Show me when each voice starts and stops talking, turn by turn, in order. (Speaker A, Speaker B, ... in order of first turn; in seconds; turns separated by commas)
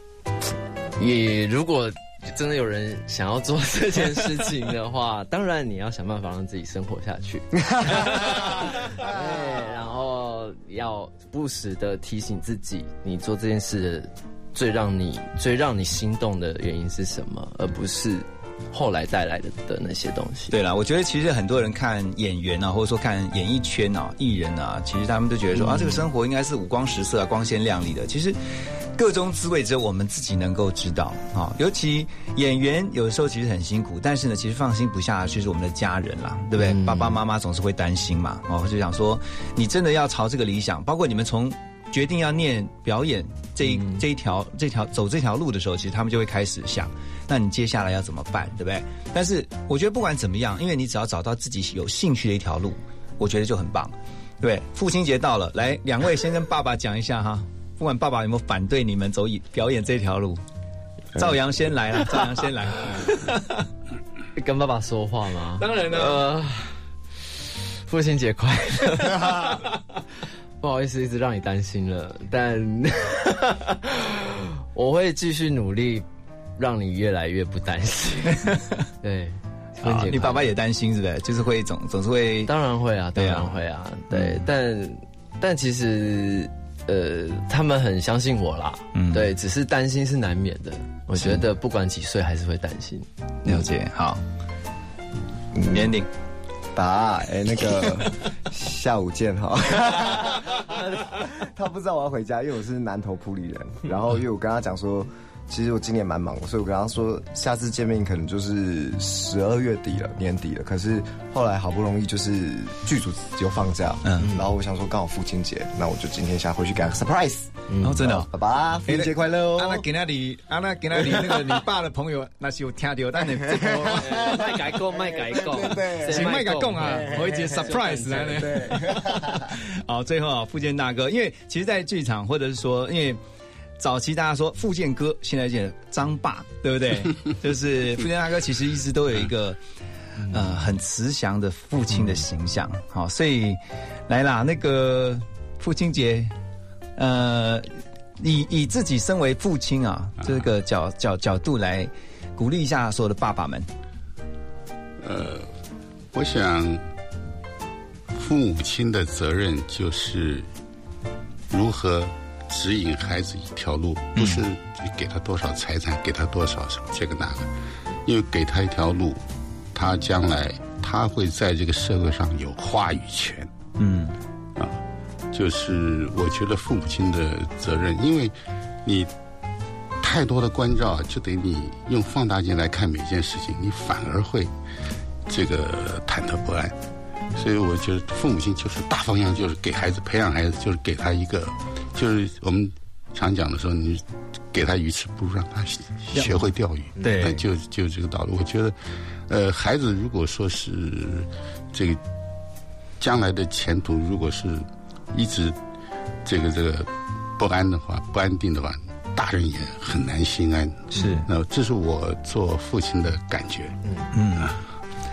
Speaker A: 1.0-20.5, Speaker B: 20.5-28.4, Speaker A: 25.6-26.1, Speaker B: 28.9-60.4, Speaker A: 36.6-37.2, Speaker A: 43.6-44.0, Speaker B: 61.1-63.4, Speaker A: 64.3-66.7, Speaker B: 65.6-66.0, Speaker A: 67.8-69.6, Speaker A: 70.6-76.0, Speaker A: 76.6-80.5, Speaker B: 79.8-82.5, Speaker A: 82.5-93.6, Speaker B: 83.2-83.5, Speaker B: 84.1-84.5, Speaker B: 88.9-89.3, Speaker B: 93.4-94.2, Speaker B: 95.7-96.1, Speaker C: 96.7-119.8, Speaker B: 114.0-114.3, Speaker A: 117.7-118.0, Speaker B: 117.8-118.3, Speaker B: 118.8-124.5, Speaker A: 123.7-128.7, Speaker C: 125.5-126.3, Speaker B: 126.1-133.2, Speaker C: 128.4-129.3, Speaker B: 133.8-139.6, Speaker B: 140.3-146.3, Speaker B: 147.0-153.7, Speaker D: 155.0-155.5, Speaker D: 156.1-156.8, Speaker D: 158.1-160.5, Speaker D: 161.5-167.5, Speaker B: 164.1-164.4, Speaker D: 168.0-169.2, Speaker D: 169.7-173.5, Speaker B: 173.8-174.1, Speaker D: 175.3-178.3, Speaker D: 178.8-179.1, Speaker D: 180.0-184.5, Speaker D: 185.3-186.7, Speaker D: 187.3-198.8, Speaker B: 197.0-197.4, Speaker D: 199.3-202.0, Speaker D: 203.0-205.6, Speaker D: 206.2-213.7, Speaker B: 210.9-211.3, Speaker B: 214.1-214.5